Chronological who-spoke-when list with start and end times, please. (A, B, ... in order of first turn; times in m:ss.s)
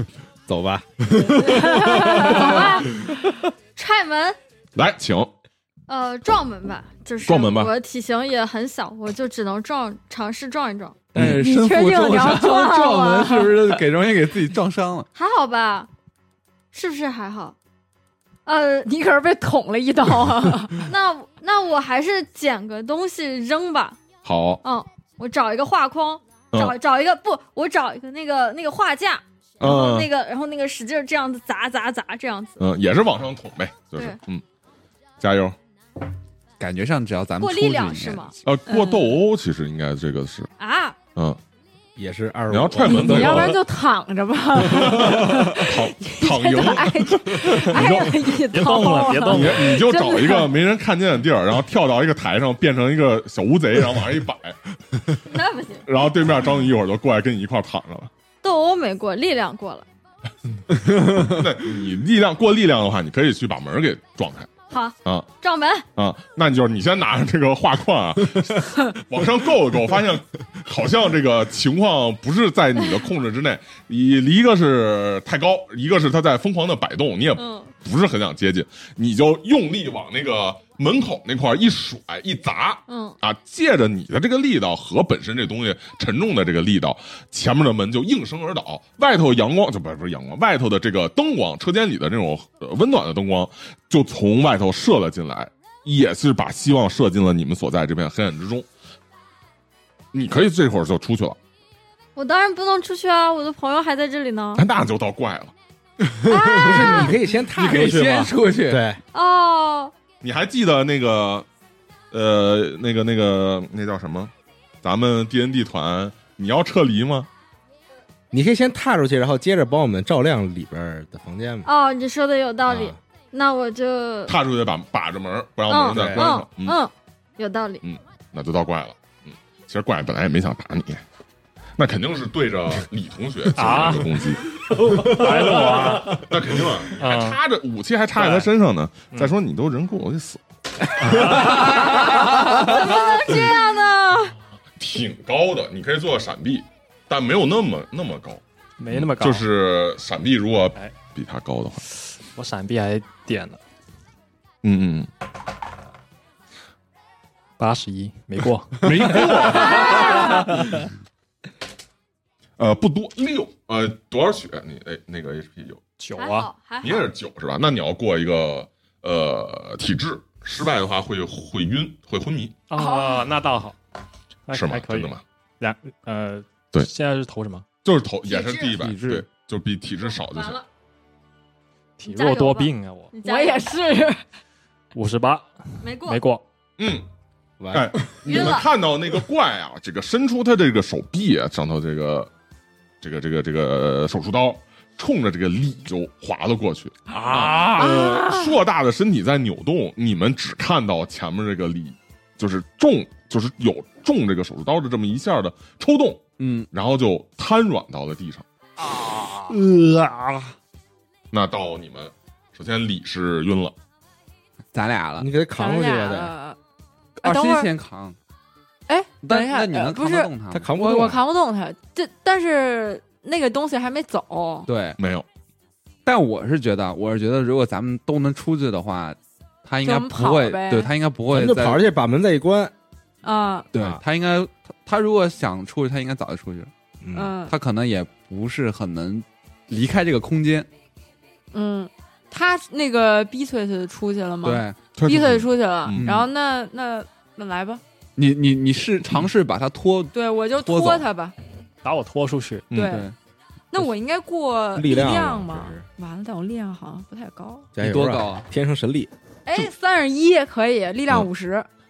0:00.5-0:02.4 A
0:01.8-0:02.7 B
0:02.2-0:02.8 C
0:03.8-0:04.4 C
0:04.8-0:05.3 D
0:05.9-0:11.0 C
0:07.2-0:07.7 D
0:11.1-0:15.1 E
0:11.4-0:13.8 B
0:11.6-0:13.1 C
0:15.1-0:15.9 C
0:16.7-0:17.6 C
0:18.4-0:18.9 C
0:18.8-0:20.8 B
0:20.8-0:24.0 C
0:24.2-0:24.6 D
0:24.6-0:32.6 C
0:29.6-0:30.1 D
0:32.6-0:34.4 D
0:35.2-0:35.6 D
0:36.6-0:38.3 E
0:37.4-0:39.1 C
0:38.4-0:40.5 D
0:40.6-0:41.0 C
0:42.0-0:43.5 A
0:42.5-0:43.6 D
0:42.8-0:50.5 B
0:44.6-0:48.4 D
0:48.5-0:49.7 F
0:49.2-0:55.0 D
0:55.2-0:55.9 C
0:55.8-0:58.1 D
0:58.4-0:59.8 C
1:00.9-1:04.5 D
1:00.9-1:01.2 E
1:04.7-1:05.8 C
1:06.0-1:38.7 D
1:17.4-1:17.7 C
1:22.9-1:23.2 C
1:40.1-1:41.4 D
1:42.2-1:44.6 C
1:44.6-1:45.5 D
1:46.2-1:48.8 E
1:46.3-1:47.1 C
1:46.5-1:49.0 A
1:49.1-1:49.9 C
1:50.2-1:51.5 D
1:52.1-1:54.3 D
1:54.8-1:57.3 D
1:58.3-2:01.7 A
2:01.6-2:04.3 C
2:02.6-2:03.0 A
2:04.3-2:06.8 D
2:05.7-2:07.8 C
2:05.9-2:06.3 A
2:07.8-2:11.0 D
2:11.8-2:14.4 D
2:13.6-2:14.2 F
2:15.0-2:16.2 F
2:16.0-2:20.4 D
2:17.0-2:17.4 F
2:18.1-2:18.5 F
2:21.0-2:21.9 F
2:21.0-2:21.4 D
2:21.8-2:24.3 C
2:24.8-2:31.8 D
2:28.8-2:29.4 F
2:32.3-2:33.6 F
2:34.6-2:35.1 D
2:37.6-2:39.2 F
2:38.8-2:40.7 D
2:39.6-2:40.3 C
2:40.1-2:40.8 F
2:42.6-2:45.8 D
2:46.0-2:46.5 F
2:46.2-2:47.1 C
2:46.8-2:52.6 D
2:52.7-2:53.8 F
2:52.8-2:53.3 C
2:54.5-2:57.6 F
2:54.5-2:55.2 D
2:57.8-3:00.6 D
2:58.2-2:58.7 C
2:58.8-2:59.2 E
3:00.2-3:00.6 C
3:02.0-3:03.1 F
3:02.0-3:03.7 C
3:03.2-3:04.2 B
3:04.9-3:05.5 F
3:05.8-3:06.2 C
3:06.0-3:06.4 F
3:06.8-3:07.0 D
3:07.6-3:08.5 A
3:07.7-3:12.3 D
3:08.2-3:08.7 C
3:13.0-3:28.4 D
3:17.3-3:17.6 E
3:17.6-3:18.5 B
3:26.4-3:26.7 E
3:29.5-3:30.4 E
3:31.3-3:33.7 D
3:34.7-3:35.3 E
3:35.2-3:36.3 A
3:35.5-3:36.6 B
3:37.2-3:38.2 E
3:37.2-3:37.7 B
3:38.9-3:44.7 B
3:39.2-3:40.7 E
3:40.5-3:41.2 A
3:44.6-3:45.0 E
3:45.0-3:45.2 D
3:46.0-3:51.8 E
3:49.8-3:50.9 B
3:51.3-3:52.7 A
3:53.2-3:53.7 B
3:53.7-3:56.7 E
3:57.0-3:57.4 A
3:57.1-3:57.5 B
3:57.4-4:00.7 E
4:01.5-4:07.8 B
4:04.4-4:04.8 E
4:05.0-4:06.1 D
4:05.9-4:06.3 E
4:08.2-4:11.0 E
4:10.1-4:11.3 B
4:11.8-4:12.7 F
4:12.7-4:13.0 D
4:12.7-4:13.1 B
4:12.8-4:13.1 E
4:13.7-4:17.7 B
4:14.7-4:15.8 A
4:17.7-4:19.1 A
4:17.8-4:18.4 E
4:19.4-4:21.7 B